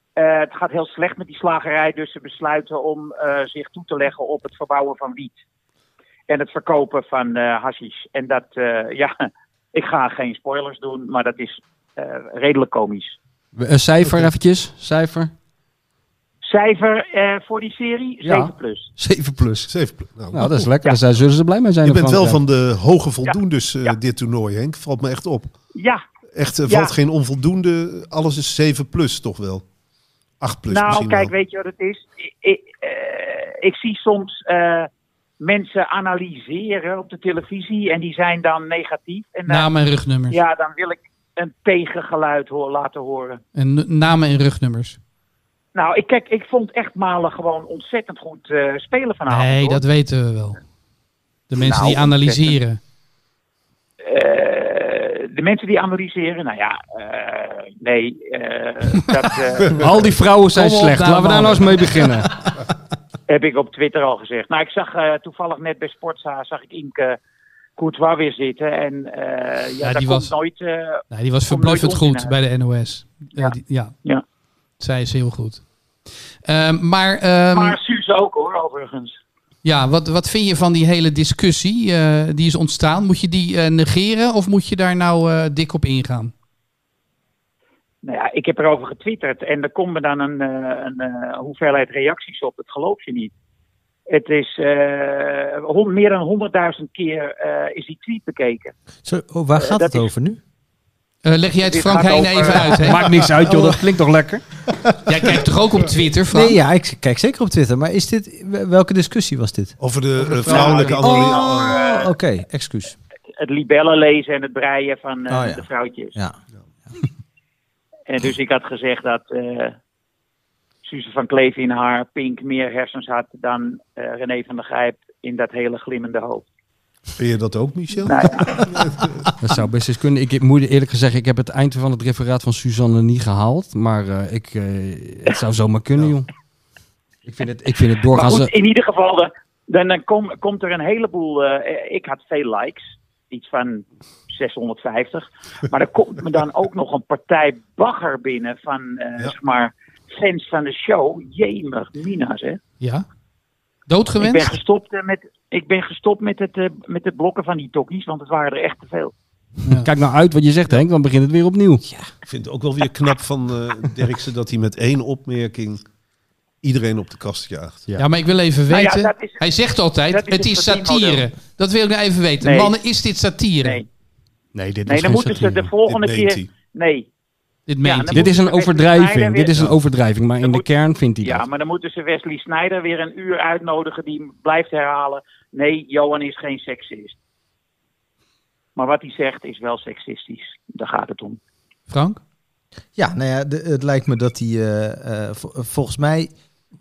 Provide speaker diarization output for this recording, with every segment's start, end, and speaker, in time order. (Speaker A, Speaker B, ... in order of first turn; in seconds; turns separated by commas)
Speaker A: 0.1-5.4, Speaker A: 6.3-13.2, Speaker B: 13.6-15.3, Speaker C: 14.0-14.3, Speaker A: 16.4-18.9, Speaker B: 18.2-22.4, Speaker C: 19.7-20.7, Speaker C: 21.8-25.5, Speaker A: 23.2-24.0, Speaker A: 25.7-26.0, Speaker C: 26.3-29.6, Speaker A: 26.7-26.9, Speaker C: 30.4-31.3, Speaker A: 30.7-39.7, Speaker D: 39.5-40.4, Speaker A: 40.3-43.4, Speaker D: 43.5-45.0, Speaker A: 45.7-49.8, Speaker D: 49.3-50.6, Speaker D: 51.5-52.8, Speaker A: 51.6-52.5, Speaker A: 54.0-59.8, Speaker B: 59.8-62.3, Speaker D: 60.5-62.1, Speaker A: 63.3-67.2, Speaker A: 67.8-72.3, Speaker D: 69.8-70.3, Speaker D: 71.1-73.9, Speaker A: 73.4-74.2, Speaker D: 74.8-75.6, Speaker D: 76.5-77.8, Speaker A: 77.5-79.2, Speaker D: 79.6-86.3, Speaker A: 88.0-93.3, Speaker A: 94.1-98.7, Speaker E: 99.0-100.4, Speaker A: 99.6-100.1, Speaker D: 101.2-103.0, Speaker A: 101.6-103.0, Speaker B: 102.7-104.4, Speaker E: 103.3-103.8, Speaker D: 105.1-106.5, Speaker E: 106.3-113.0, Speaker C: 109.8-111.8, Speaker A: 110.4-112.1, Speaker A: 113.4-116.2, Speaker E: 115.3-116.4, Speaker A: 118.1-119.8, Speaker A: 120.8-126.4, Speaker C: 127.2-129.2, Speaker A: 128.1-128.6, Speaker B: 129.4-136.3, Speaker B: 137.2-138.5, Speaker A: 138.1-152.6, Speaker D: 153.9-154.6, Speaker A: 154.2-159.1, Speaker B: 159.8-161.8, Speaker E: 161.8-162.1, Speaker C: 162.2-165.8, Speaker C: 166.6-167.8, Speaker D: 168.0-173.8, Speaker A: 168.7-169.5, Speaker A: 170.1-171.2, Speaker A: 172.4-172.8, Speaker B: 174.5-175.7, Speaker A: 174.9-177.1, Speaker C: 175.4-176.5, Speaker D: 177.7-178.3, Speaker A: 177.8-179.7, Speaker B: 178.1-181.4, Speaker A: 180.4-180.7, Speaker A: 181.2-187.2, Speaker A: 188.8-191.4, Speaker D: 191.9-192.2, Speaker E: 192.9-196.3